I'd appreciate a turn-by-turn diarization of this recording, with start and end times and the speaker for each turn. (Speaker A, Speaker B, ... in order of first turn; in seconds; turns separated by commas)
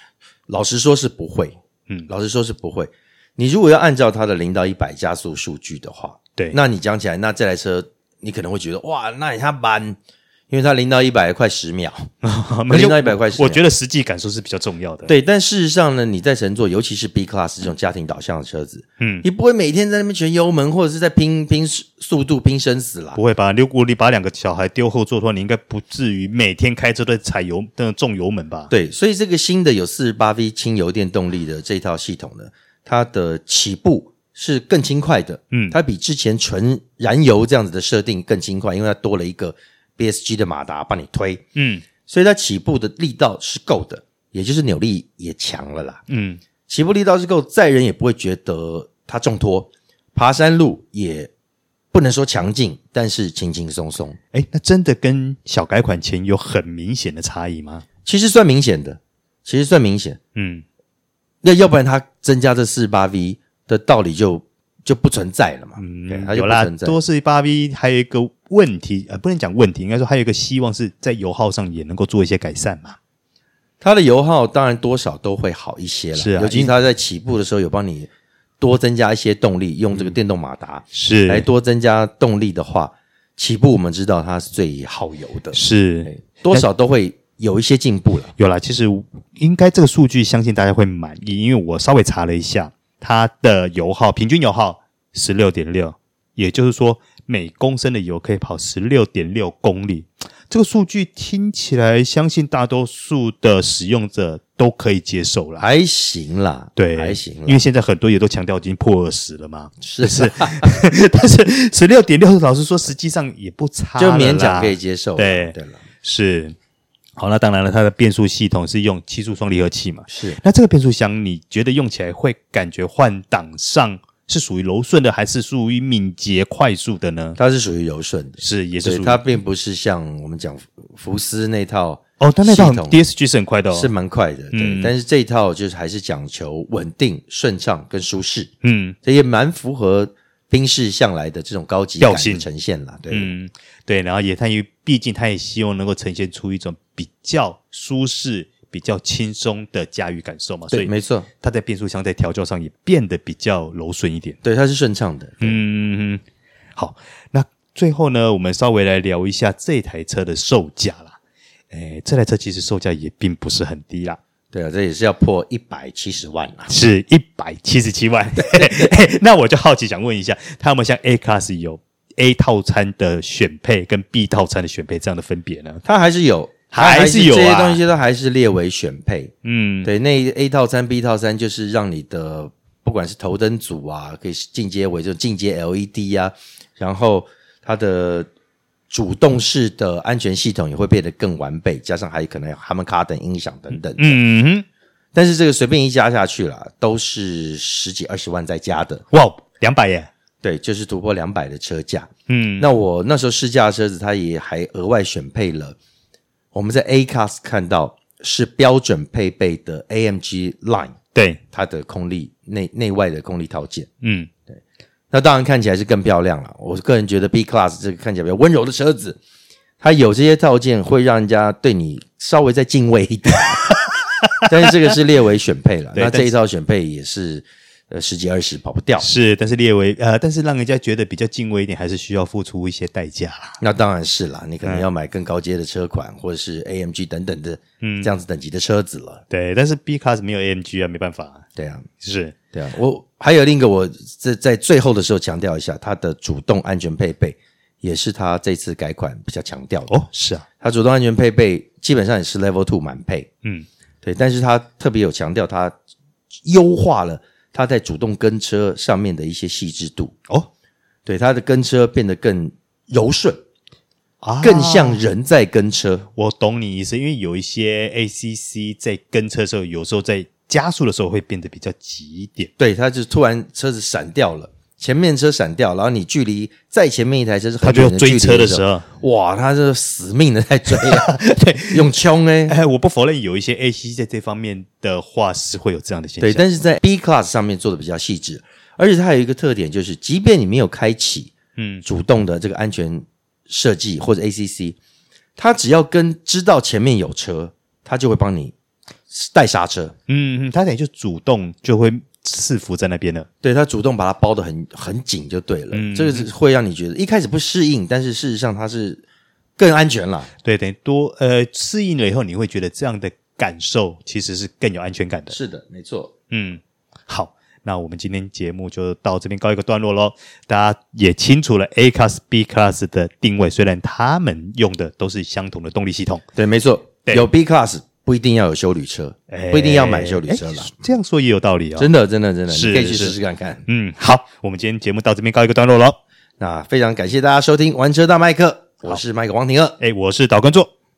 Speaker A: 0.5-10.0, Speaker A: 10.5-12.1, Speaker B: 12.2-15.1, Speaker A: 12.7-13.6, Speaker A: 15.1-23.2, Speaker B: 19.0-19.2, Speaker B: 23.1-28.7, Speaker A: 28.7-41.4, Speaker B: 41.5-41.8, Speaker A: 42.1-46.0, Speaker B: 46.1-46.4, Speaker A: 46.7-51.3, Speaker A: 51.9-54.2, Speaker B: 54.3-57.8, Speaker A: 58.0-60.2, Speaker B: 60.3-60.6, Speaker A: 61.4-67.0, Speaker B: 65.8-73.0, Speaker A: 73.8-78.1, Speaker B: 76.1-76.7, Speaker A: 78.6-88.3, Speaker B: 80.9-81.5, Speaker B: 85.5-86.6, Speaker B: 88.4-105.6, Speaker A: 105.6-107.6, Speaker B: 106.8-116.5, Speaker A: 109.8-110.7, Speaker A: 114.0-115.8, Speaker B: 117.2-127.4, Speaker A: 120.1-120.4, Speaker A: 127.4-133.0, Speaker B: 128.4-129.2, Speaker B: 132.2-133.9, Speaker A: 133.7-138.5, Speaker B: 134.5-134.9, Speaker B: 138.6-138.9, Speaker A: 139.0-143.3, Speaker B: 142.0-142.4, Speaker B: 143.1-150.9, Speaker A: 150.7-151.3, Speaker B: 151.4-154.4, Speaker A: 154.4-155.6, Speaker B: 155.4-156.2, Speaker B: 156.8-161.2, Speaker B: 161.7-164.2, Speaker A: 164.5-166.7, Speaker B: 166.7-175.8, Speaker A: 168.5-168.9, Speaker A: 175.8-179.3, Speaker B: 176.7-177.8, Speaker B: 179.4-179.9, Speaker A: 179.8-188.3, Speaker A: 188.9-194.2, Speaker B: 193.7-194.7, Speaker A: 195.1-199.0, Speaker B: 199.1-200.1, Speaker A: 200.4-205.8, Speaker B: 202.3-202.7, Speaker A: 206.5-210.9, Speaker B: 211.1-211.4, Speaker A: 211.5-213.9, Speaker B: 214.0-214.3, Speaker A: 215.1-219.2, Speaker A: 219.8-223.8, Speaker B: 224.2-224.7, Speaker A: 224.4-229.1, Speaker B: 225.9-226.3, Speaker B: 229.0-233.6, Speaker A: 233.6-239.2, Speaker B: 237.8-238.1, Speaker B: 239.3-241.4, Speaker A: 241.6-241.9, Speaker B: 242.0-242.3, Speaker A: 242.5-250.0, Speaker B: 249.9-250.4, Speaker A: 250.6-253.3, Speaker A: 254.0-255.7, Speaker A: 256.4-260.1, Speaker A: 261.1-263.4, Speaker B: 264.2-265.0, Speaker A: 264.4-266.1, Speaker B: 266.1-272.5, Speaker A: 272.6-282.6, Speaker B: 277.6-278.9, Speaker B: 280.7-281.8, Speaker B: 282.5-286.4, Speaker A: 286.2-294.8, Speaker B: 291.6-291.8, Speaker A: 295.4-298.5, Speaker A: 299.1-299.9, Speaker B: 300.1-303.3, Speaker A: 303.4-309.0, Speaker B: 305.7-306.3, Speaker A: 309.6-310.3, Speaker B: 310.4-315.4, Speaker A: 315.3-316.1, Speaker B: 316.3-326.2, Speaker A: 326.4-330.8, Speaker B: 329.3-331.9, Speaker A: 331.8-333.6, Speaker B: 332.5-333.1, Speaker B: 333.7-336.0, Speaker A: 336.4-339.8, Speaker B: 339.8-340.7